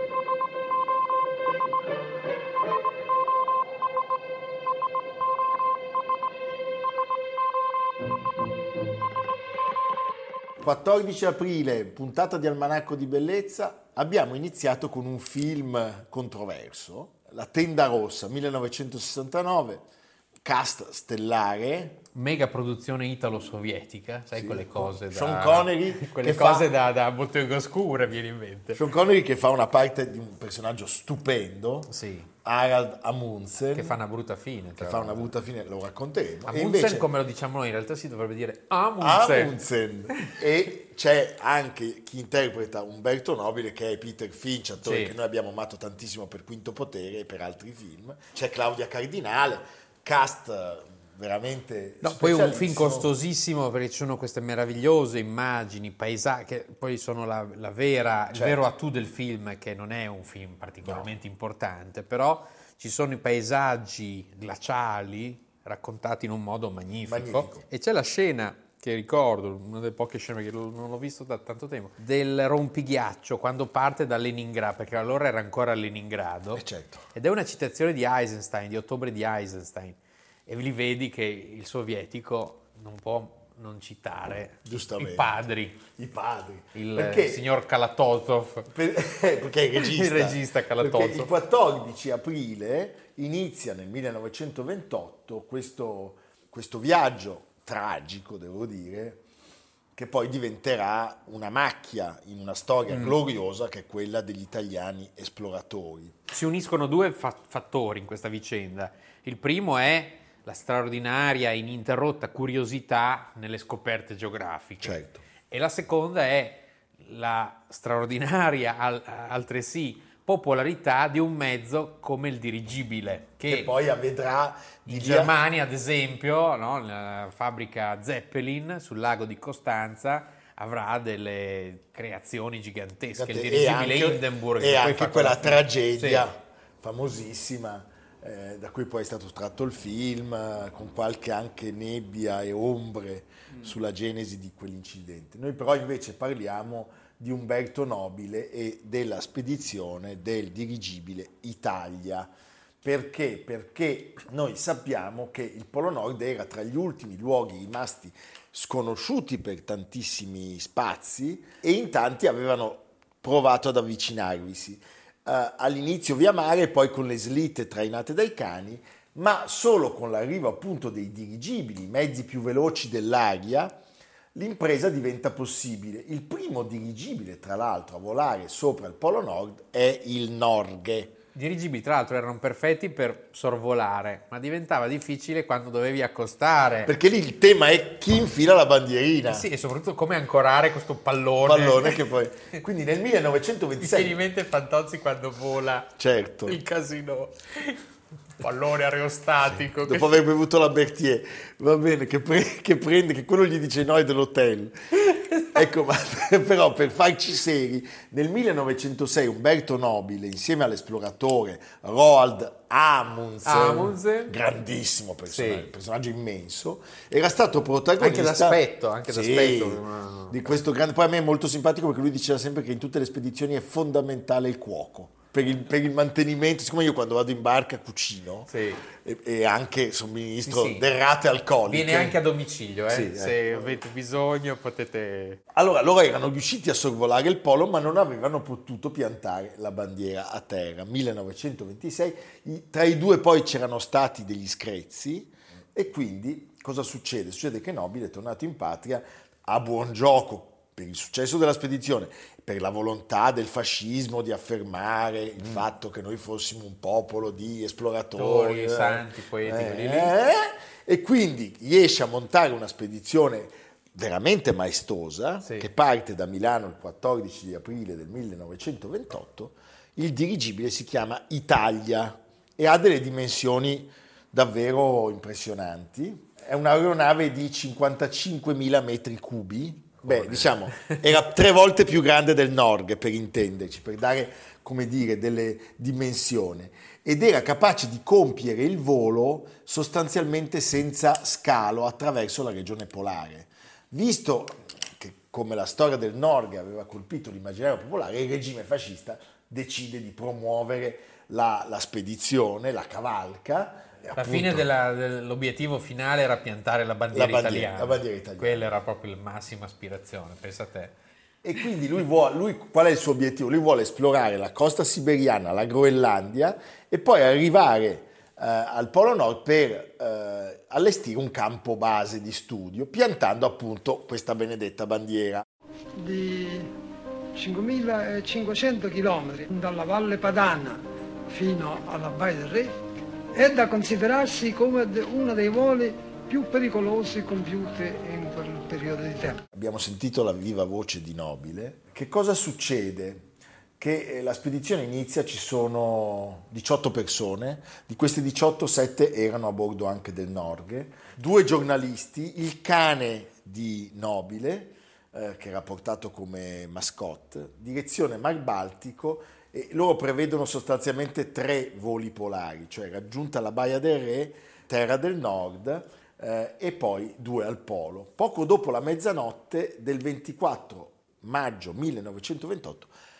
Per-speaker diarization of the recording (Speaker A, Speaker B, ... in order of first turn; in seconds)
Speaker A: 10.6-19.9, 20.4-22.0, 24.3-26.7, 28.7-31.9, 32.4-34.0, 34.8-37.1, 39.0-53.1, 58.3-58.6, 67.1-67.7, 76.5-77.0, 84.7-85.3, 85.8-87.5, 88.7-99.2, 100.0-106.2, 114.8-115.2, 123.5-125.3, 133.2-152.3, 152.8-173.8, 174.3-181.2, 186.8-189.5, 191.4-194.2, 196.0-196.6, 199.5-205.0, 205.5-232.2, 232.9-233.8, 235.5-304.7, 307.1-308.7, 311.4-325.4, 339.5-372.9
Speaker B: 22.1-28.8, 31.9-32.3, 33.7-35.3, 36.5-39.5, 44.8-45.1, 52.0-85.8, 86.8-88.7, 89.8-91.3, 102.9-103.2, 106.3-115.0, 115.5-123.7, 124.9-136.3, 181.3-186.9, 189.3-192.0, 193.8-195.9, 196.5-197.8, 198.4-200.2, 205.1-205.6, 213.4-214.3, 215.3-215.7, 218.0-220.4, 228.5-228.8, 230.4-230.9, 231.7-235.4, 258.2-260.1, 265.4-265.7, 280.0-281.0, 304.2-310.9
Speaker C: 326.0-326.7, 327.4-332.8, 333.3-339.4